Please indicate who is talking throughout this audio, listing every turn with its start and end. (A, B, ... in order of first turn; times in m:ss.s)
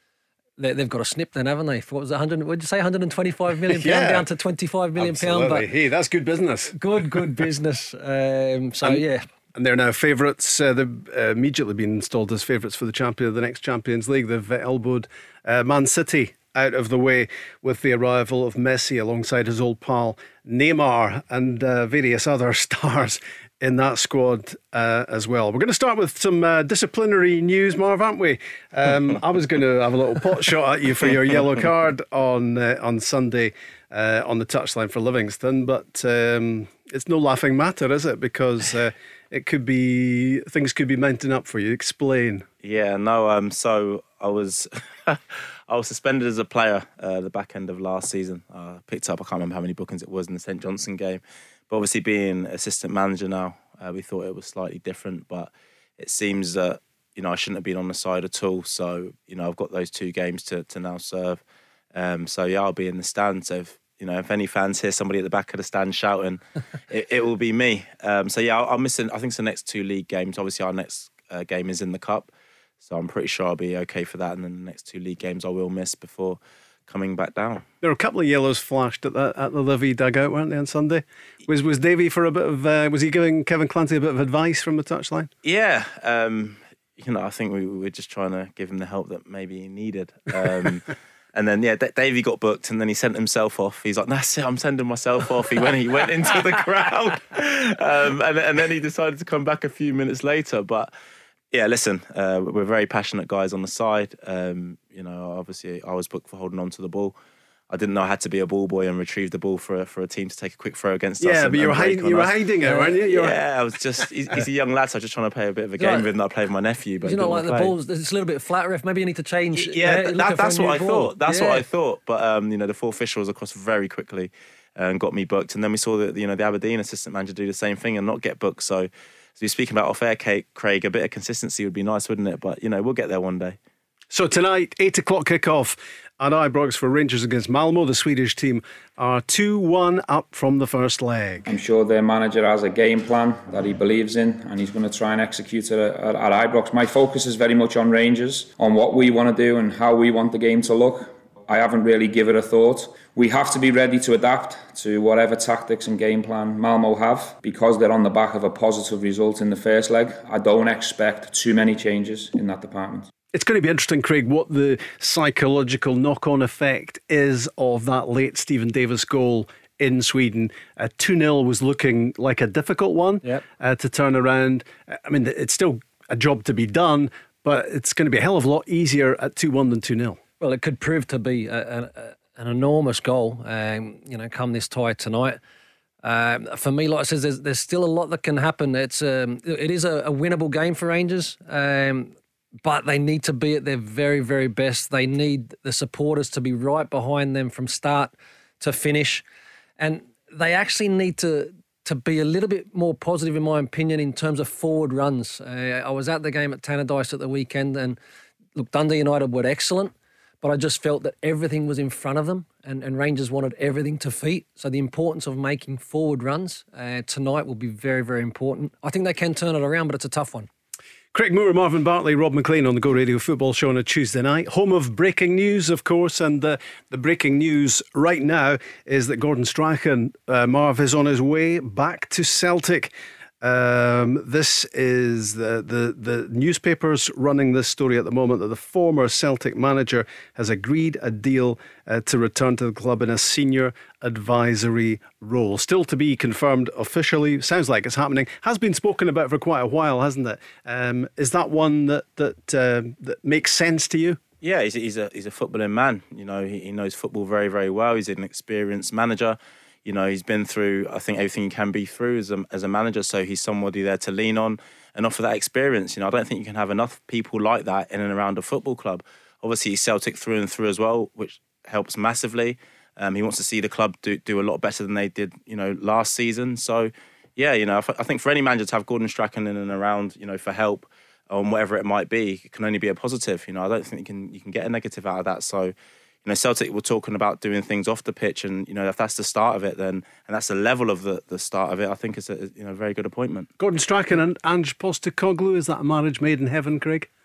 0:00.6-0:05.7 A
0:03.7-0:04.3 B
0:05.0-0:06.8 B
0:06.7-0:09.2 A
0:09.6-0:42.5 B
0:42.6-1:01.4 C
1:01.9-1:12.3 C
1:12.8-1:17.6 C
1:17.8-1:25.3 B
1:25.4-1:40.9 C
1:41.5-1:47.2 C
1:47.7-1:52.3 C
1:51.2-1:53.4 B
1:52.9-1:57.7 C
1:55.8-1:56.1 A
1:57.0-2:01.6 A
1:59.6-2:13.6 C
2:14.1-2:21.5 B
2:21.5-2:43.1 D
2:43.3-3:00.2 B
3:00.4-3:05.4 A
3:06.0-3:19.2 A
3:19.8-3:28.0 A
3:28.6-3:40.5 A
3:41.1-4:14.2 B
4:14.4-4:45.7 C
4:46.2-4:53.5 C
4:53.6-4:57.1 B